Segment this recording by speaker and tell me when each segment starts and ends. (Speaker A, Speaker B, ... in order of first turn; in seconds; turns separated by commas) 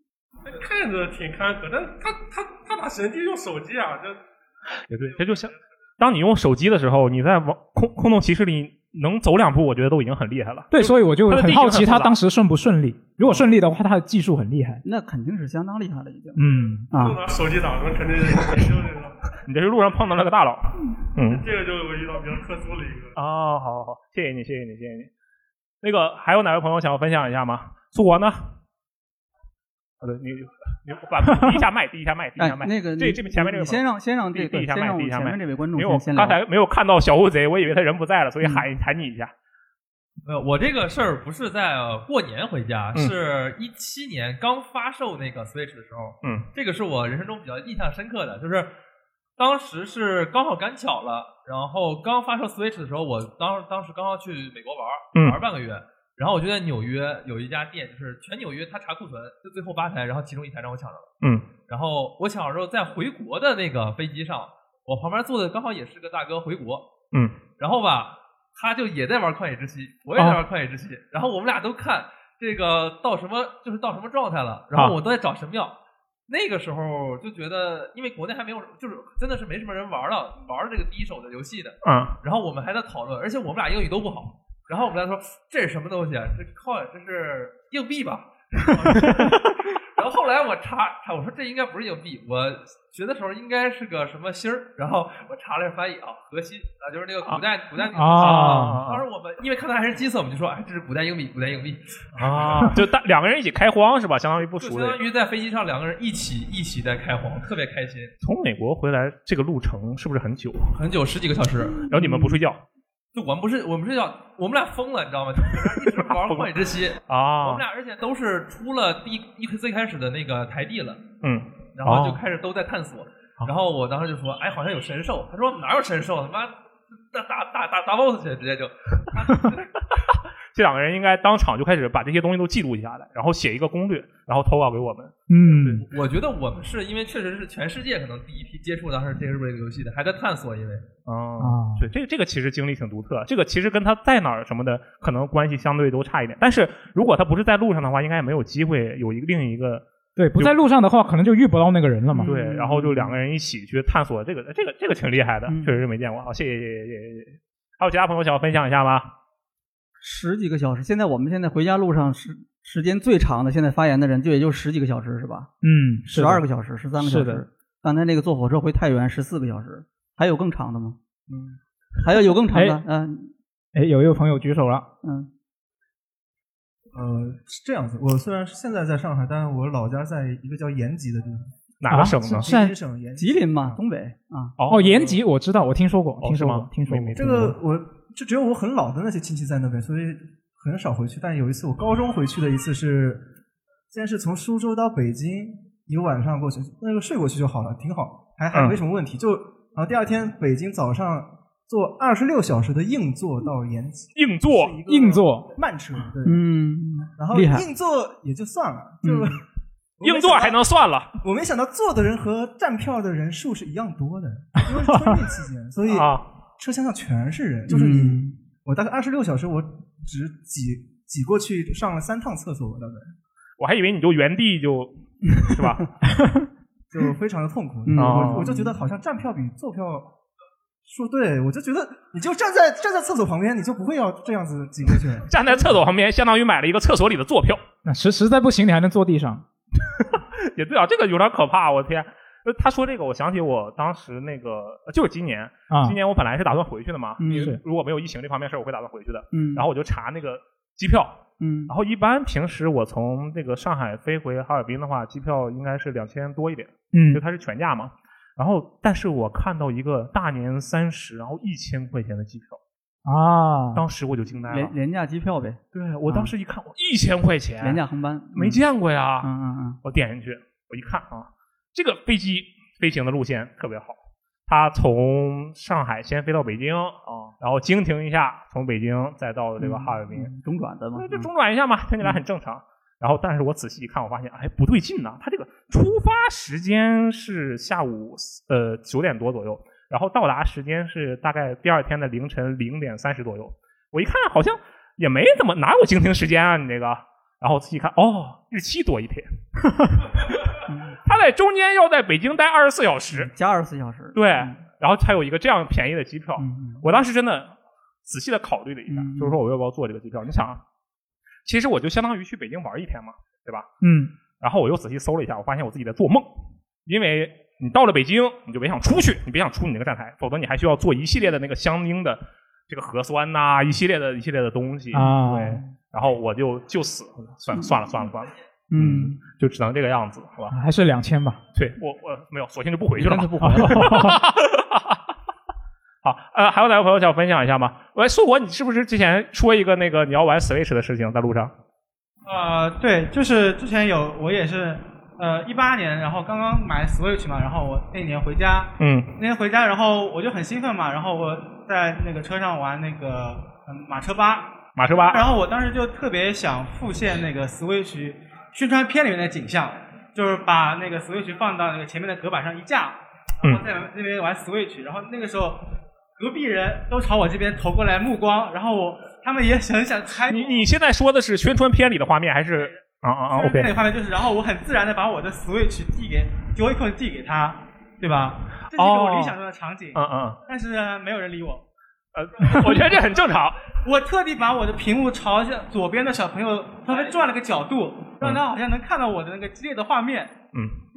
Speaker A: 0.4-4.2, Speaker B: 4.9-12.2, Speaker A: 5.2-5.5, Speaker C: 10.7-14.8, Speaker B: 13.2-13.5, Speaker D: 14.8-17.2, Speaker C: 16.4-16.9, Speaker A: 16.9-19.1, Speaker B: 19.4-21.4, Speaker A: 21.2-23.1, Speaker B: 23.1-25.1, Speaker B: 25.8-28.6, Speaker B: 30.0-33.8, Speaker D: 32.4-36.4, Speaker B: 34.3-39.3, Speaker D: 38.4-38.6, Speaker E: 40.2-48.7, Speaker B: 46.2-46.5, Speaker E: 49.4-61.1, Speaker B: 55.1-55.4, Speaker B: 61.2-61.5, Speaker E: 61.6-66.9, Speaker B: 67.1-67.4, Speaker E: 67.6-75.8, Speaker B: 70.1-70.4, Speaker E: 76.3-102.7, Speaker B: 81.8-82.2, Speaker C: 97.8-98.8, Speaker B: 98.2-99.0, Speaker B: 102.1-105.0, Speaker E: 104.5-108.1, Speaker B: 108.2-110.7, Speaker E: 110.7-111.9, Speaker B: 111.9-112.6, Speaker E: 113.1-121.0, Speaker B: 115.9-116.5, Speaker B: 117.1-117.6, Speaker B: 121.2-122.2, Speaker E: 121.8-126.5, Speaker E: 127.1-129.7, Speaker B: 130.5-135.8, Speaker C: 135.3-135.8, Speaker E: 135.8-140.8, Speaker B: 141.0-149.8, Speaker C: 141.4-141.8, Speaker C: 150.2-152.3, Speaker D: 152.1-153.2, Speaker B: 152.2-159.1, Speaker D: 155.5-155.8, Speaker D: 160.0-165.5, Speaker C: 165.6-166.4, Speaker D: 166.1-171.0, Speaker C: 167.0-167.4, Speaker D: 172.0-173.3, Speaker C: 172.5-172.8, Speaker C: 173.7-174.9, Speaker D: 175.0-175.3, Speaker F: 176.9-181.5, Speaker B: 181.8-182.5, Speaker C: 181.9-182.7, Speaker F: 182.2-183.5, Speaker D: 183.2-184.5, Speaker B: 184.6-185.2, Speaker C: 184.7-187.2, Speaker B: 186.2-187.6, Speaker F: 187.2-193.2, Speaker F: 193.9-206.4, Speaker B: 198.5-198.8, Speaker B: 204.2-204.8, Speaker C: 204.9-205.5, Speaker D: 206.2-207.7, Speaker F: 207.2-209.4, Speaker D: 209.0-209.4, Speaker F: 210.0-210.6, Speaker B: 210.0-211.1, Speaker F: 211.2-223.1, Speaker B: 215.9-216.3, Speaker D: 217.7-218.3, Speaker B: 223.6-225.9, Speaker D: 225.3-225.7, Speaker F: 226.9-230.1, Speaker D: 227.8-228.7, Speaker B: 227.9-228.5, Speaker F: 230.8-235.3, Speaker B: 235.3-237.6, Speaker C: 237.8-239.4, Speaker B: 240.0-262.6, Speaker C: 245.7-246.0, Speaker D: 247.2-247.5, Speaker C: 247.3-247.6, Speaker D: 249.3-249.6, Speaker D: 251.4-251.7, Speaker C: 256.9-257.2, Speaker C: 263.1-263.8, Speaker B: 263.7-264.7, Speaker D: 264.5-266.3, Speaker B: 265.7-267.8, Speaker D: 267.6-268.6, Speaker B: 268.3-269.3, Speaker D: 269.2-269.8, Speaker B: 269.8-280.3, Speaker D: 279.6-281.3, Speaker B: 280.9-299.3, Speaker B: 299.8-303.3, Speaker D: 300.7-301.0, Speaker D: 303.1-304.6, Speaker B: 304.1-307.5, Speaker D: 306.4-306.8, Speaker B: 308.0-310.6, Speaker D: 308.9-309.4, Speaker B: 311.4-313.7, Speaker C: 313.8-314.1, Speaker B: 314.4-316.3, Speaker B: 316.9-330.5, Speaker C: 324.9-325.6, Speaker D: 328.7-329.2, Speaker C: 330.5-331.4, Speaker B: 331.5-335.0, Speaker D: 333.0-333.9, Speaker C: 333.4-334.2, Speaker B: 336.0-341.5, Speaker G: 342.2-365.6, Speaker B: 348.8-349.2, Speaker B: 354.8-355.3, Speaker G: 366.2-370.6, Speaker B: 370.3-373.7, Speaker G: 373.3-381.6, Speaker B: 378.7-379.3, Speaker B: 379.9-380.4, Speaker B: 382.1-383.6, Speaker G: 383.8-390.4, Speaker B: 390.5-390.8